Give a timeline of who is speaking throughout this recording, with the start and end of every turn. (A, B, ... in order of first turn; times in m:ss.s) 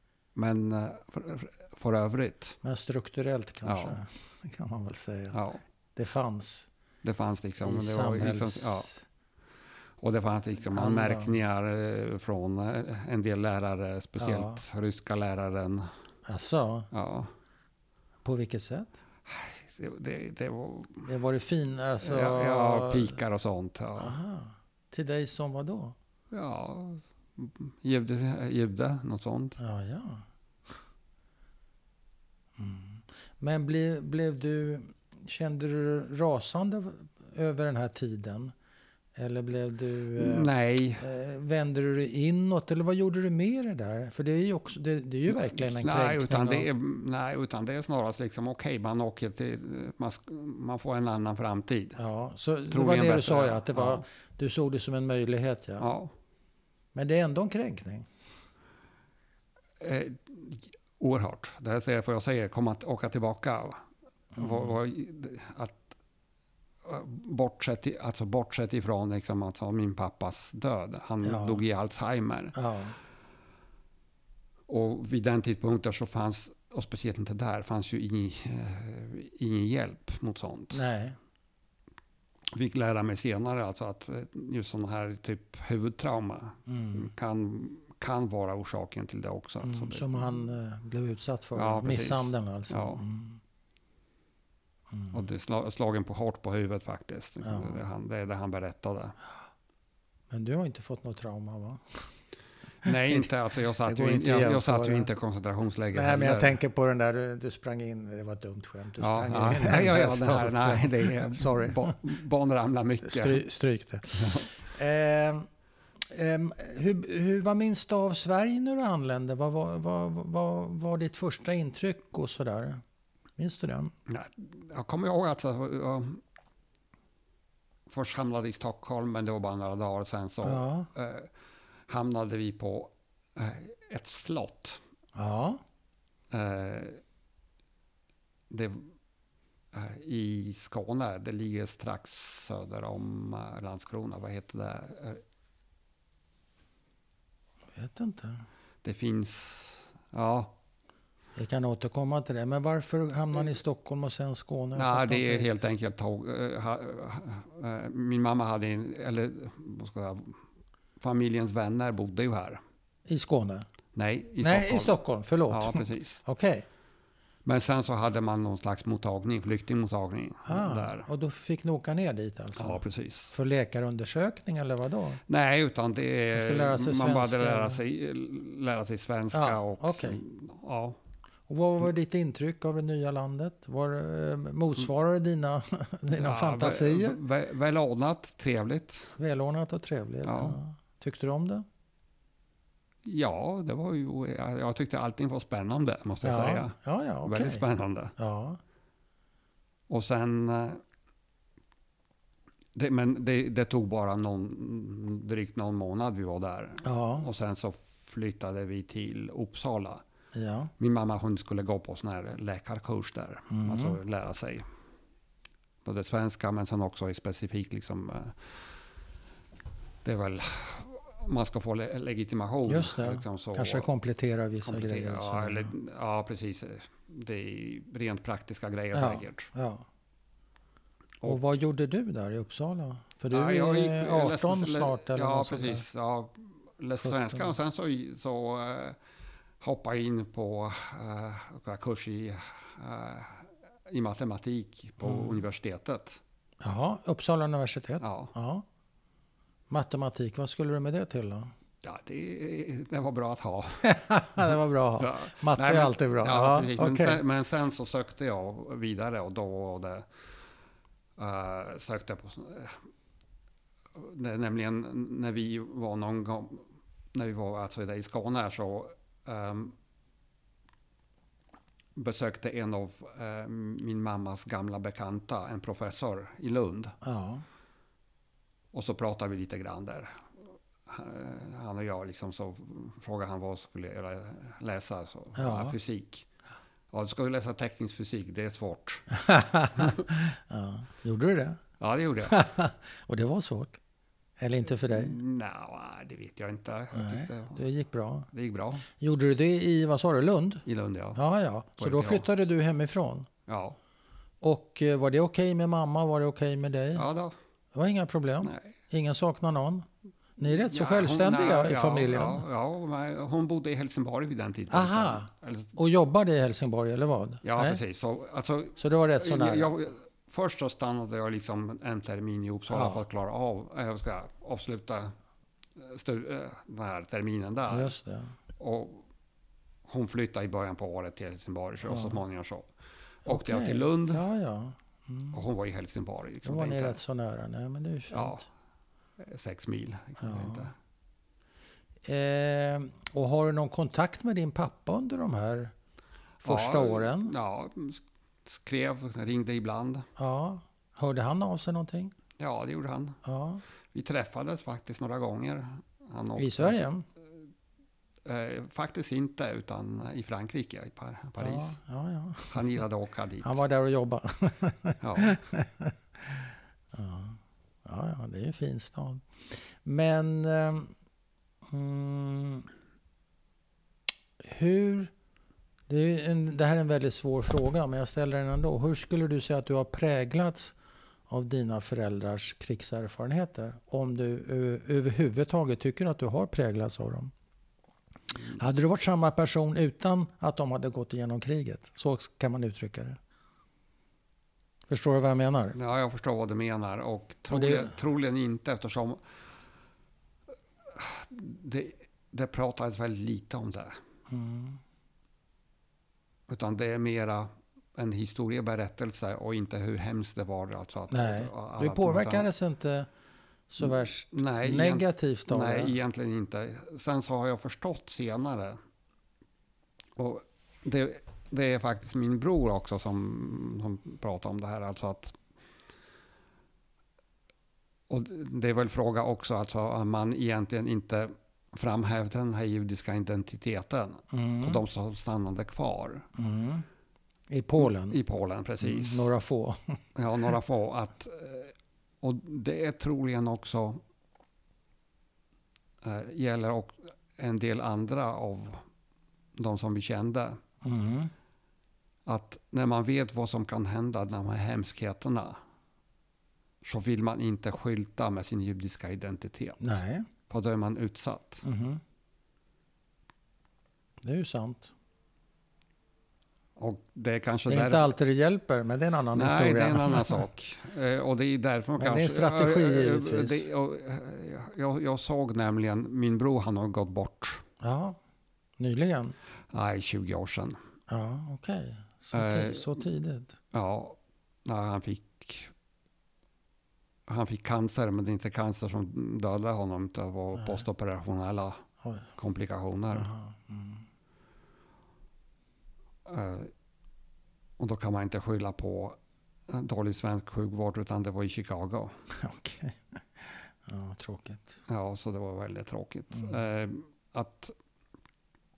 0:00.4-0:02.6 A
0:02.6-0:05.4 B
0:03.6-0:04.0 A
0:05.3-0:05.6 A
0:06.0-0:06.7 B
0:07.0-0:08.9 A
0:07.6-0:09.1 B
0:10.0-0:15.9 A
0:10.7-0:11.3 B
0:14.2-0:14.6 B
0:16.3-0:16.9 B
0:16.9-0:17.3 A
0:18.2-0:19.0 B
0:19.3-0:21.1 A
0:21.1-0:23.2 B
0:22.0-0:24.2 A
0:24.0-0:26.0 B
0:26.3-0:29.6 A
0:29.6-0:30.2 B
0:32.6-0:38.5 B
0:39.2-0:46.7 B
0:40.2-0:41.0 A
0:45.3-0:52.0 A
0:52.0-0:55.9 B
0:52.7-0:54.0 A
0:55.8-0:56.1 A
0:57.0-0:58.1 B
0:59.8-1:03.8 A
1:04.4-1:04.7 B
1:04.4-1:05.9 A
1:06.8-1:12.6 A
1:11.2-1:11.6 B
1:12.5-1:13.0 B
1:14.7-1:20.8 A
1:20.7-1:21.2 B
1:22.5-1:30.2 A
1:26.7-1:27.1 B
1:29.6-1:33.4 B
1:31.6-1:33.0 A
1:34.9-1:35.2 B
1:35.1-1:39.2 A
1:37.4-1:37.8 B
1:40.3-1:42.0 B
1:42.8-1:46.6 A
1:42.8-1:43.3 B
1:43.8-1:45.1 B
1:45.9-1:52.0 B
1:49.0-1:53.4 A
1:53.0-1:55.5 B
1:54.2-1:54.5 A
1:56.1-2:02.8 B
2:03.4-2:03.9 B
2:04.1-2:06.2 A
2:07.9-2:11.3 A
2:10.4-2:10.9 B
2:11.9-2:14.8 A
2:15.2-2:15.6 B
2:16.3-2:17.0 A
2:18.5-2:18.9 A
2:19.7-2:25.2 A
2:27.8-2:28.4 B
2:28.8-2:30.6 A
2:31.4-2:35.6 B
2:34.7-2:40.4 A
2:41.0-2:42.6 A
2:43.1-2:43.6 B
2:44.0-2:46.2 A
2:44.4-2:46.7 B
2:47.4-2:51.1 A
2:50.4-2:55.2 B
2:52.6-2:53.3 A
2:55.3-3:01.0 A
2:56.3-2:57.8 B
2:59.3-3:00.2 B
3:01.5-3:07.2 B
3:06.1-3:09.2 A
3:09.2-3:11.6 B
3:10.2-3:10.6 A
3:13.0-3:18.1 A
3:16.2-3:17.6 B
3:18.2-3:18.6 B
3:19.9-3:20.8 A
3:22.8-3:30.0 A
3:26.8-3:27.3 B
3:30.4-3:30.7 B
3:30.8-3:34.6 A
3:33.5-3:34.0 B
3:35.8-3:38.5 A
3:40.0-3:43.9 A
3:42.7-3:45.7 B
3:44.6-3:49.5 A
3:48.9-3:49.9 B
3:51.2-3:55.8 B
3:53.3-3:59.0 A
3:57.0-3:57.5 B
3:59.6-4:06.2 A
4:05.0-4:05.4 B
4:06.6-4:08.7 B
4:08.0-4:08.3 A
4:09.7-4:11.5 B
4:11.8-4:13.8 A
4:13.8-4:17.2 B
4:15.0-4:20.1 A
4:21.2-4:22.8 A
4:24.0-4:29.8 A
4:32.0-4:37.0 A
4:37.0-4:37.4 B
4:38.7-4:40.2 A
4:40.9-4:46.3 A
4:45.4-4:45.8 B
4:46.9-4:49.1 A
4:49.1-4:51.6 B
4:51.8-4:52.4 A
4:52.2-4:53.8 B
4:54.4-4:55.2 B
4:54.8-4:57.6 A
4:56.9-4:58.3 B
4:58.3-4:58.8 A
4:58.9-5:00.6 B
5:00.7-5:01.2 A
5:01.2-5:03.3 B
5:01.8-5:02.3 A
5:03.5-5:03.8 A
5:04.4-5:07.1 B
5:07.0-5:07.3 A
5:07.7-5:09.9 B
5:08.4-5:08.7 A
5:10.4-5:12.4 B
5:10.5-5:15.7 A
5:14.7-5:17.8 B
5:17.4-5:25.1 A
5:18.8-5:19.7 B
5:22.7-5:23.0 B
5:25.8-5:28.0 A
5:27.7-5:28.3 B
5:28.6-5:29.1 A
5:29.9-5:32.7 A
5:31.8-5:32.2 B
5:33.3-5:34.2 A
5:33.3-5:35.4 B
5:35.3-5:37.0 A
5:36.4-5:38.5 B
5:38.1-5:38.4 A
5:39.2-5:40.7 A
5:40.2-5:40.7 B
5:42.1-5:45.7 B
5:46.4-5:47.3 B
5:46.4-5:50.1 A
5:50.2-5:52.1 B
5:52.4-5:53.2 A
5:53.2-5:53.6 B
5:53.9-5:56.9 A
5:56.4-5:57.0 B
5:58.2-6:01.8 A
6:01.4-6:02.6 B
6:02.5-6:03.6 A
6:03.4-6:10.9 B
6:05.0-6:05.3 A
6:11.7-6:12.7 B
6:14.4-6:15.1 B
6:15.9-6:20.8 B
6:21.3-6:27.3 B
6:28.5-6:33.2 B
6:34.9-6:35.8 B
6:35.8-6:39.2 A
6:37.5-6:38.0 B
6:40.9-6:43.9 A
6:44.3-6:44.8 B
6:46.5-6:52.5 A
6:51.1-6:53.1 B
6:53.7-6:56.0 B
6:53.8-6:58.8 A
7:00.2-7:05.4 A
7:08.1-7:16.3 A
7:14.3-7:14.8 B
7:16.4-7:16.8 B
7:17.5-7:18.2 B
7:17.8-7:19.3 A
7:18.8-7:20.0 B
7:20.2-7:24.0 A
7:26.0-7:28.8 A
7:29.6-7:30.6 A
7:30.8-7:31.3 B
7:32.3-7:35.6 A
7:36.8-7:41.6 A
7:39.8-7:40.3 B
7:41.6-7:42.0 B
7:44.2-7:44.9 B
7:46.8-7:48.1 A
7:47.7-7:50.4 B
7:49.3-7:57.6 A
7:52.0-7:53.7 B
7:57.8-7:58.2 B
7:58.8-7:59.4 B
7:59.7-8:00.8 A
8:01.1-8:03.6 B
8:02.3-8:03.0 A
8:03.7-8:05.7 A
8:07.3-8:11.8 A
8:10.6-8:10.8 B
8:12.4-8:13.3 A
8:13.1-8:14.0 B
8:16.3-8:16.7 A
8:17.8-8:22.1 A
8:22.3-8:24.8 B
8:24.9-8:27.7 A